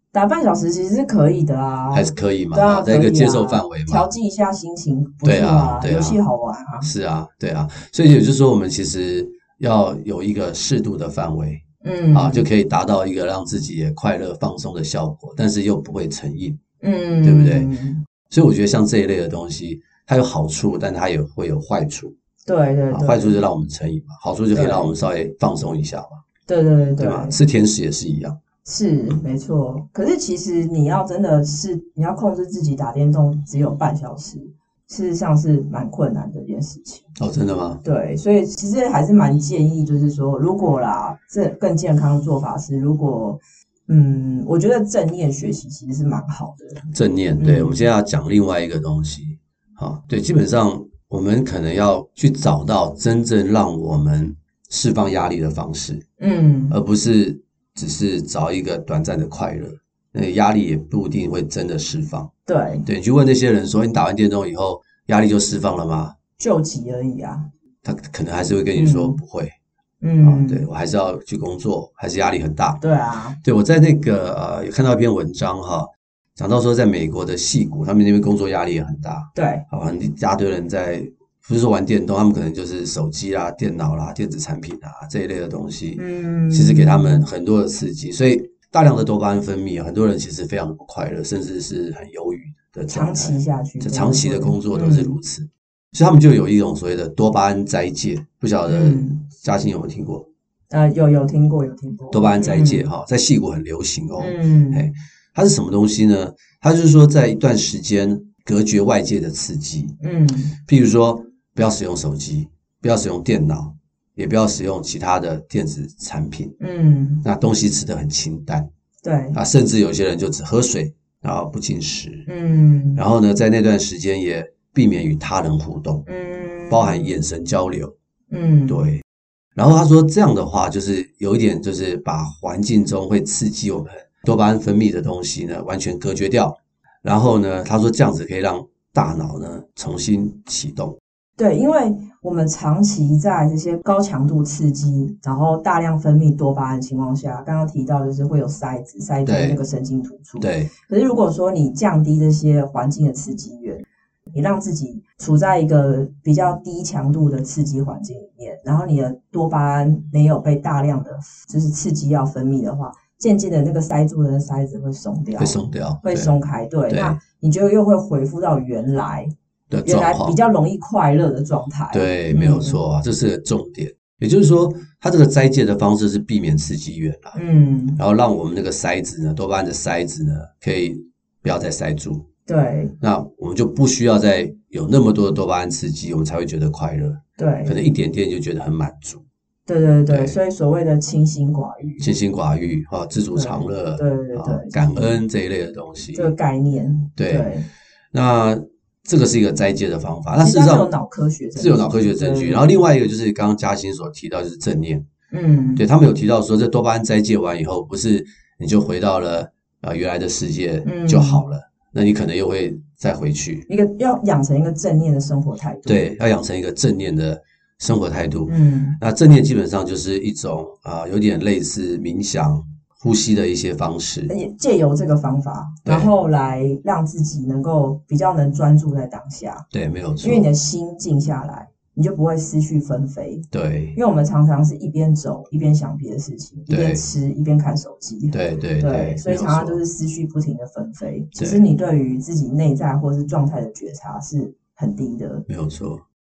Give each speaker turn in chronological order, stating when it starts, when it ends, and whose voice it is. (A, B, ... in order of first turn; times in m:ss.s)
0:00.1-0:06.9 A
0:01.9-0:04.1 B
0:05.2-0:06.2 B
0:06.8-0:16.6 B
0:11.8-0:12.5 A
0:16.8-0:18.1 A
0:17.2-0:17.7 B
0:18.3-0:22.2 B
0:22.5-0:23.4 A
0:22.9-0:26.2 B
0:24.5-0:25.0 A
0:26.5-0:27.4 A
0:27.0-0:28.4 B
0:28.6-0:37.1 A
0:37.2-0:37.8 B
0:37.8-0:47.8 A
0:46.9-0:56.0 B
0:56.2-0:56.8 A
0:56.7-1:02.3 B
1:02.5-1:02.9 A
1:02.9-1:06.2 B
1:06.4-1:07.5 A
1:07.8-1:09.5 B
1:08.8-1:09.2 A
1:10.0-1:10.7 A
1:10.2-1:12.8 B
1:12.8-1:13.4 A
1:13.4-1:40.3 B
1:19.4-1:19.6 A
1:26.0-1:27.3 A
1:32.9-1:35.2 A
1:38.7-1:39.2 A
1:40.7-1:42.9 A
1:42.1-1:50.0 B
1:44.2-1:44.9 A
1:50.0-1:50.6 A
1:50.6-1:56.6 B
1:56.6-1:57.2 A
1:57.2-1:58.7 B
1:59.0-1:59.4 A
1:59.3-2:02.3 B
2:02.3-2:03.0 A
2:03.0-2:06.0 B
2:06.1-2:07.3 A
2:06.7-2:07.9 B
2:08.3-2:08.9 A
2:08.7-2:09.0 B
2:09.6-2:21.0 B
2:21.4-2:49.3 A
2:29.3-2:29.6 B
2:30.4-2:30.7 B
2:45.4-2:46.4 B
2:46.9-2:47.2 B
2:49.7-2:50.4 B
2:49.8-2:52.8 A
2:51.9-2:57.4 B
2:57.3-2:58.0 A
2:58.0-3:02.3 B
3:02.5-3:03.0 A
3:03.0-3:09.2 B
3:07.4-3:07.8 A
3:09.7-3:12.1 A
3:10.1-3:10.4 B
3:12.0-3:16.3 B
3:13.3-3:15.2 A
3:16.1-3:17.7 A
3:17.2-3:17.5 B
3:18.1-3:20.9 B
3:20.4-3:22.8 A
3:21.6-3:25.0 B
3:25.3-3:25.8 A
3:25.8-3:33.7 B
3:30.8-3:31.4 A
3:33.7-3:36.1 A
3:35.9-3:44.3 B
3:38.5-3:39.0 A
3:44.3-3:49.7 A
3:45.8-3:46.1 B
3:49.7-3:50.5 B
3:50.2-4:05.4 A
3:53.5-3:54.0 B
3:56.7-3:57.0 B
3:58.3-3:59.8 B
4:01.4-4:01.6 B
4:05.5-4:06.0 B